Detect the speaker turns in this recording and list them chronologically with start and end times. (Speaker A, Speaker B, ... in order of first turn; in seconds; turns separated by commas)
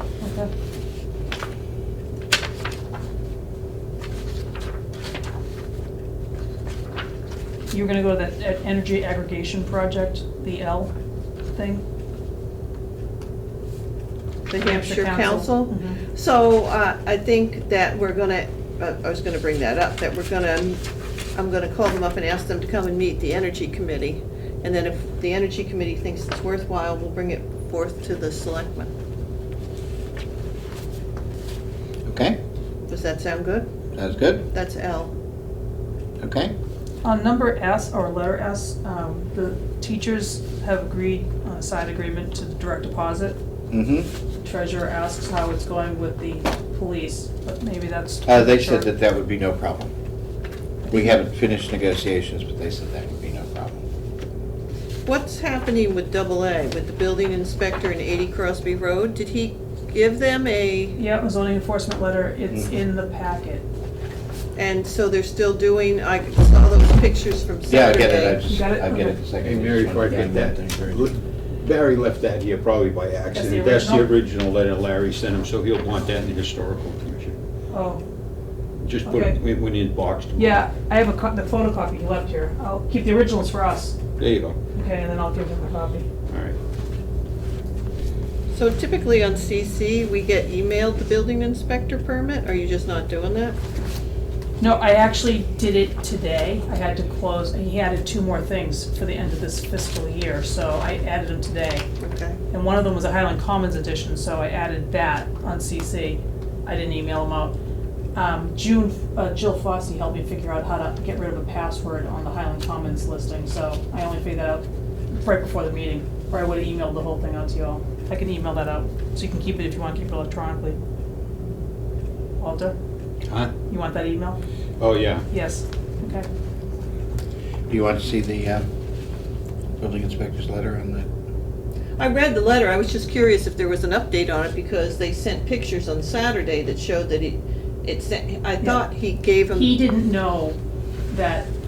Speaker A: 0.2-0.5, Speaker A: 7.7-10.9, Speaker A: 11.5-11.8, Speaker B: 14.5-20.8, Speaker A: 14.6-16.0, Speaker B: 21.4-28.9, Speaker C: 32.0-32.4, Speaker B: 32.9-33.7, Speaker C: 33.9-34.5, Speaker B: 34.5-35.1, Speaker C: 36.2-36.5, Speaker A: 37.0-43.4, Speaker C: 43.7-44.1, Speaker A: 44.4-48.9, Speaker C: 48.2-49.9, Speaker A: 50.8-51.2, Speaker C: 50.9-53.8, Speaker B: 55.0-61.0, Speaker A: 61.0-63.6, Speaker B: 64.5-68.4, Speaker C: 67.7-71.1, Speaker A: 68.4-69.2, Speaker D: 69.4-77.3, Speaker A: 73.3-74.1, Speaker A: 77.7-78.0, Speaker D: 78.8-80.6, Speaker A: 79.0-79.4, Speaker A: 80.3-84.0, Speaker D: 84.2-84.6, Speaker A: 84.7-86.0, Speaker D: 86.3-86.6, Speaker B: 88.5-93.6, Speaker A: 94.6-101.8, Speaker B: 102.0-102.4, Speaker A: 102.5-107.5, Speaker A: 108.1-120.8, Speaker A: 122.4-122.8, Speaker D: 123.3-123.5, Speaker A: 123.7-124.4, Speaker D: 124.8-125.2, Speaker A: 125.3-126.3, Speaker C: 127.7-128.7, Speaker C: 129.8-131.1, Speaker B: 132.0-139.8, Speaker A: 139.5-140.6, Speaker A: 141.1-141.5